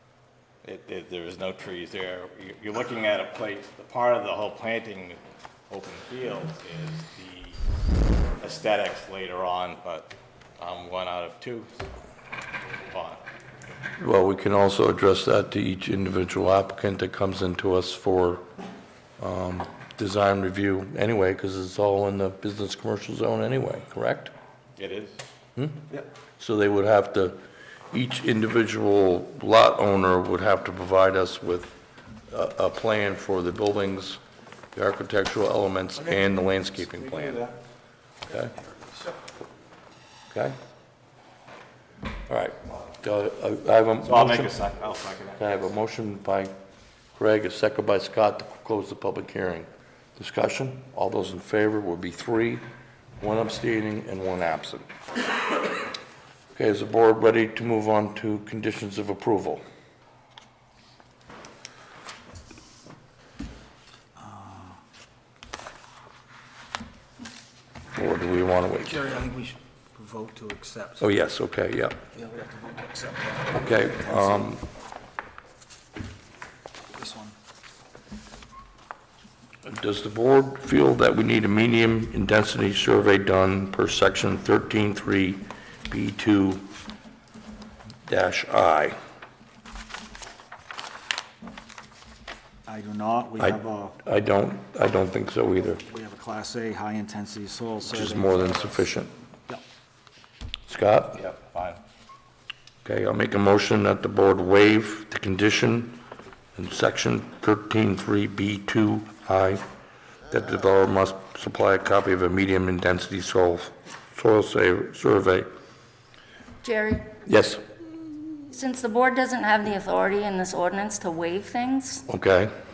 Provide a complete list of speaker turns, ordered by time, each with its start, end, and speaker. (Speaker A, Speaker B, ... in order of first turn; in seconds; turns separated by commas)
Speaker A: 0.6-7.6, Speaker A: 8.4-11.7, Speaker A: 12.7-13.2, Speaker B: 14.0-18.4, Speaker B: 19.2-24.3, Speaker A: 24.8-25.2, Speaker B: 25.6-25.8, Speaker B: 26.4-27.4, Speaker B: 27.9-31.8, Speaker B: 32.3-34.2, Speaker B: 34.7-37.5, Speaker A: 36.9-37.6, Speaker B: 38.3-38.5, Speaker B: 40.3-40.6, Speaker B: 42.3-44.6, Speaker A: 44.0-45.4, Speaker B: 45.4-46.5, Speaker B: 47.1-52.6, Speaker B: 53.2-54.9, Speaker B: 56.5-59.6, Speaker C: 64.2-64.8, Speaker B: 68.0-69.0, Speaker C: 68.8-71.1, Speaker B: 71.0-72.0, Speaker C: 72.1-74.5, Speaker B: 73.5-74.6, Speaker C: 76.9-77.3, Speaker B: 79.7-86.7, Speaker B: 88.1-88.9, Speaker C: 92.7-93.9, Speaker B: 93.4-95.8, Speaker C: 95.8-98.8, Speaker B: 97.9-99.1, Speaker B: 100.7-101.2, Speaker A: 101.1-101.8, Speaker B: 102.8-106.0, Speaker B: 106.5-109.6, Speaker B: 110.3-115.5, Speaker D: 116.6-117.1, Speaker B: 117.2-117.6, Speaker D: 118.5-122.0, Speaker B: 122.1-122.5